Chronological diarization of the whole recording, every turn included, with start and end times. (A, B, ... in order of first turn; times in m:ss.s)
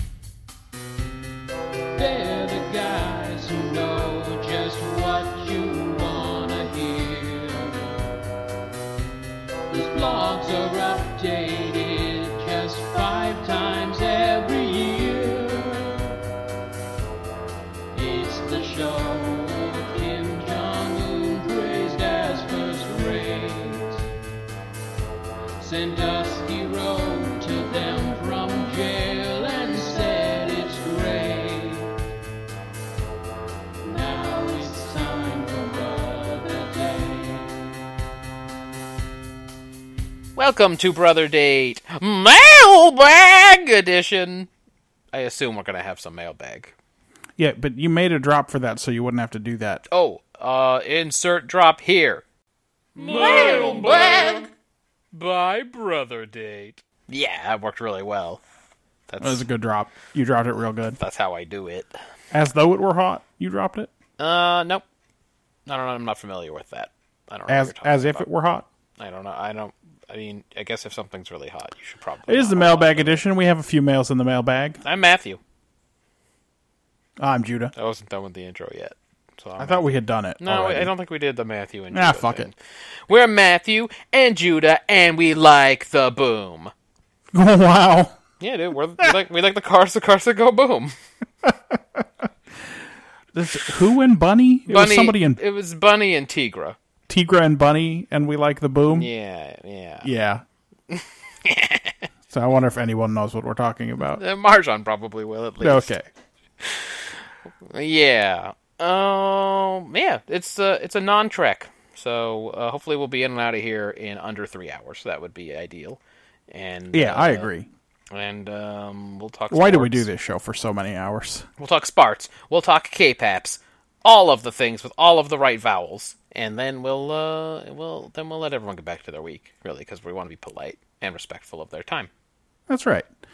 0:01.9-0:08.0 A
0:09.7-0:16.2 A
0:17.9-0:24.1 A
0:25.6-0:32.0 A
0:33.8-0:37.8 A
0:40.4-0:44.5 B
0:45.1-0:46.7 B
0:47.4-0:49.8 C
0:49.9-0:52.2 B
0:53.0-0:54.5 B
0:55.1-0:58.4 B
0:59.1-0:59.4 B
0:59.2-1:01.0 C
1:01.0-1:01.9 B
1:02.3-1:03.9 C
1:04.2-1:04.8 B
1:05.6-1:08.2 B
1:07.5-1:08.6 C
1:09.0-1:13.2 B
1:12.3-1:14.8 C
1:14.8-1:15.4 B
1:17.2-1:17.7 C
1:17.7-1:19.9 B
1:19.6-1:20.9 C
1:20.4-1:22.6 B
1:21.9-1:22.5 C
1:23.1-1:26.7 B
1:27.3-1:28.2 C
1:28.4-1:30.9 B
1:31.4-1:32.2 C
1:33.3-1:35.4 C
1:34.7-1:36.8 B
1:37.1-1:39.1 C
1:38.9-1:40.1 B
1:40.0-1:40.4 C
1:40.9-1:42.0 B
1:42.3-1:44.2 C
1:44.1-1:45.9 B
1:45.6-1:46.0 C
1:46.6-1:47.1 B
1:47.6-1:57.5 B
1:56.9-1:57.7 C
1:58.1-2:00.1 B
1:59.5-2:01.5 C
2:01.6-2:12.1 B
2:12.7-2:13.1 C